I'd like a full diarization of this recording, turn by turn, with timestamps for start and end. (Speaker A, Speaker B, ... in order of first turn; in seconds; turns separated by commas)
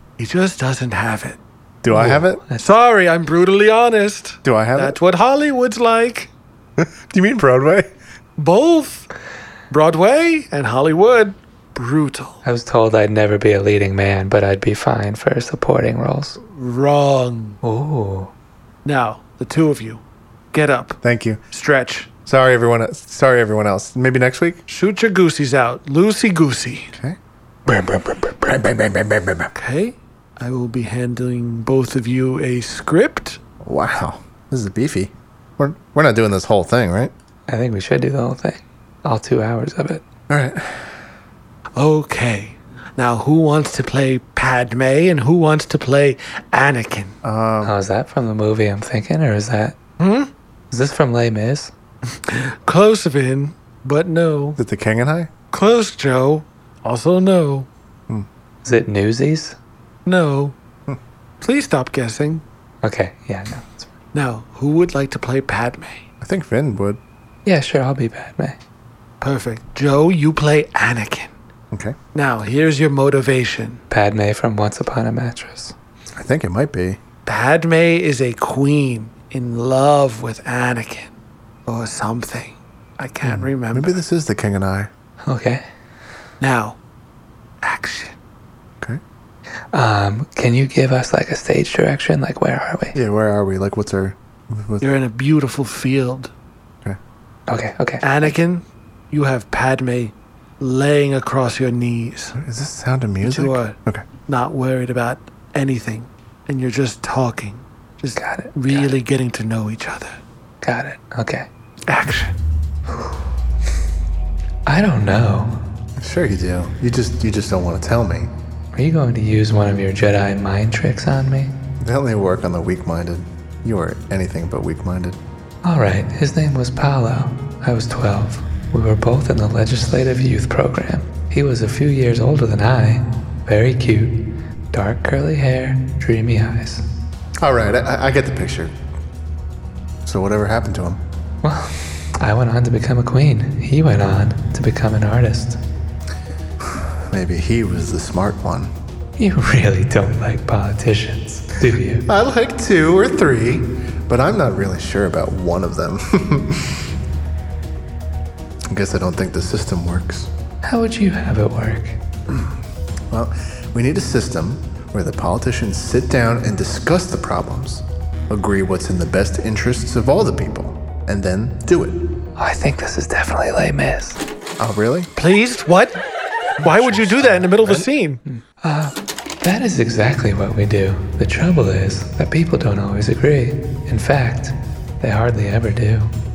Speaker A: 0.2-1.4, Speaker B: 1.8-2.4, Speaker C: 1.9-2.7, Speaker A: 2.6-6.3, Speaker B: 4.4-5.0, Speaker B: 6.8-7.9, Speaker A: 8.4-9.1, Speaker A: 9.7-12.4, Speaker C: 12.4-16.4, Speaker A: 16.4-17.6, Speaker C: 17.6-18.3, Speaker A: 18.9-21.0, Speaker B: 21.0-21.4, Speaker A: 21.5-22.1, Speaker B: 22.3-24.6, Speaker A: 24.7-26.9, Speaker C: 27.7-28.6, Speaker B: 28.5-29.5, Speaker A: 29.6-33.4, Speaker B: 33.6-37.1, Speaker C: 37.5-40.0, Speaker B: 40.3-41.0, Speaker A: 41.8-47.2, Speaker B: 47.2-47.8, Speaker C: 47.6-49.8, Speaker A: 50.0-50.3, Speaker C: 50.7-51.7, Speaker A: 52.1-54.6, Speaker B: 54.6-55.3, Speaker A: 55.5-57.7, Speaker C: 58.6-59.6, Speaker A: 60.0-60.6, Speaker A: 61.4-62.4, Speaker C: 62.8-63.9, Speaker A: 64.1-66.1, Speaker B: 66.2-67.0, Speaker C: 67.5-68.6, Speaker A: 69.2-71.3, Speaker B: 71.7-72.0, Speaker A: 72.1-73.8, Speaker C: 73.9-75.8, Speaker B: 76.1-77.0, Speaker A: 77.2-81.1, Speaker A: 81.7-83.9, Speaker B: 83.2-84.9, Speaker C: 85.2-85.7, Speaker A: 86.4-86.8, Speaker A: 87.6-88.2, Speaker C: 89.7-93.0, Speaker B: 92.9-94.9, Speaker A: 94.8-96.3, Speaker C: 97.5-98.3, Speaker A: 98.0-102.4, Speaker B: 102.4-104.1, Speaker A: 103.2-110.2, Speaker C: 108.2-109.0, Speaker C: 110.6-111.5, Speaker A: 111.9-112.4, Speaker C: 114.7-115.6, Speaker B: 116.0-118.3, Speaker C: 118.7-121.5, Speaker B: 121.8-125.2, Speaker C: 125.6-136.8, Speaker B: 137.4-138.7, Speaker B: 140.1-141.0, Speaker C: 141.4-145.6, Speaker B: 147.1-148.7, Speaker C: 149.2-152.1, Speaker B: 152.1-156.9, Speaker B: 158.7-160.3, Speaker C: 160.6-162.0, Speaker B: 163.1-172.0, Speaker C: 172.4-174.2, Speaker B: 174.6-175.1, Speaker A: 175.2-176.0, Speaker B: 176.6-177.9, Speaker A: 176.6-178.2, Speaker C: 178.3-186.1